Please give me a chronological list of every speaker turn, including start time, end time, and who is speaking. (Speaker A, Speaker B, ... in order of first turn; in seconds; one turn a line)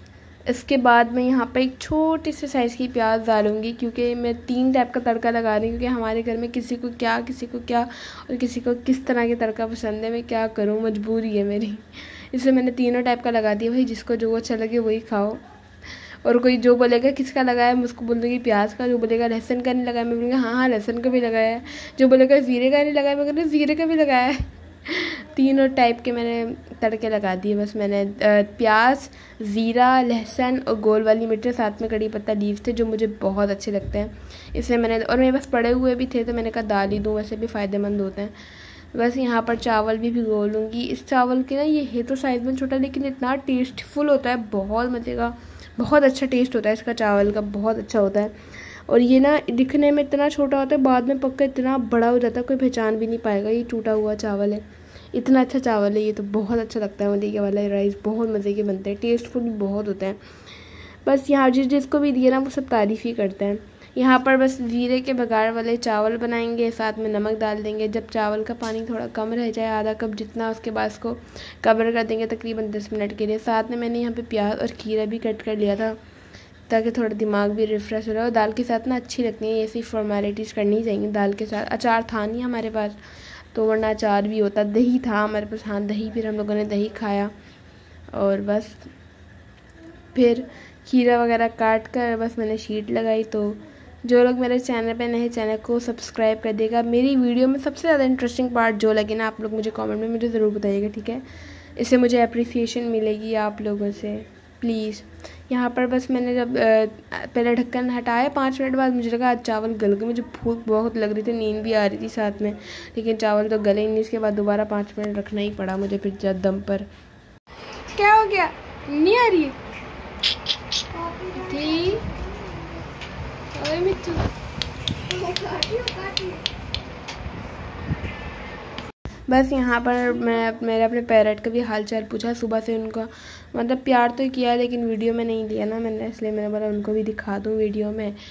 Speaker A: 0.5-15.4
Speaker A: 16.2-38.3
Speaker A: 38.9-48.3
Speaker A: 48.9-60.2
Speaker A: 61.0-76.0
Speaker A: 76.7-83.0
Speaker A: 83.5-87.3
Speaker A: 88.1-88.9
Speaker A: 90.1-101.2
Speaker A: 101.8-116.9
Speaker A: 117.9-119.6
Speaker A: 121.3-122.1
Speaker A: 123.5-124.3
Speaker A: 125.1-126.4
Speaker A: 129.3-138.2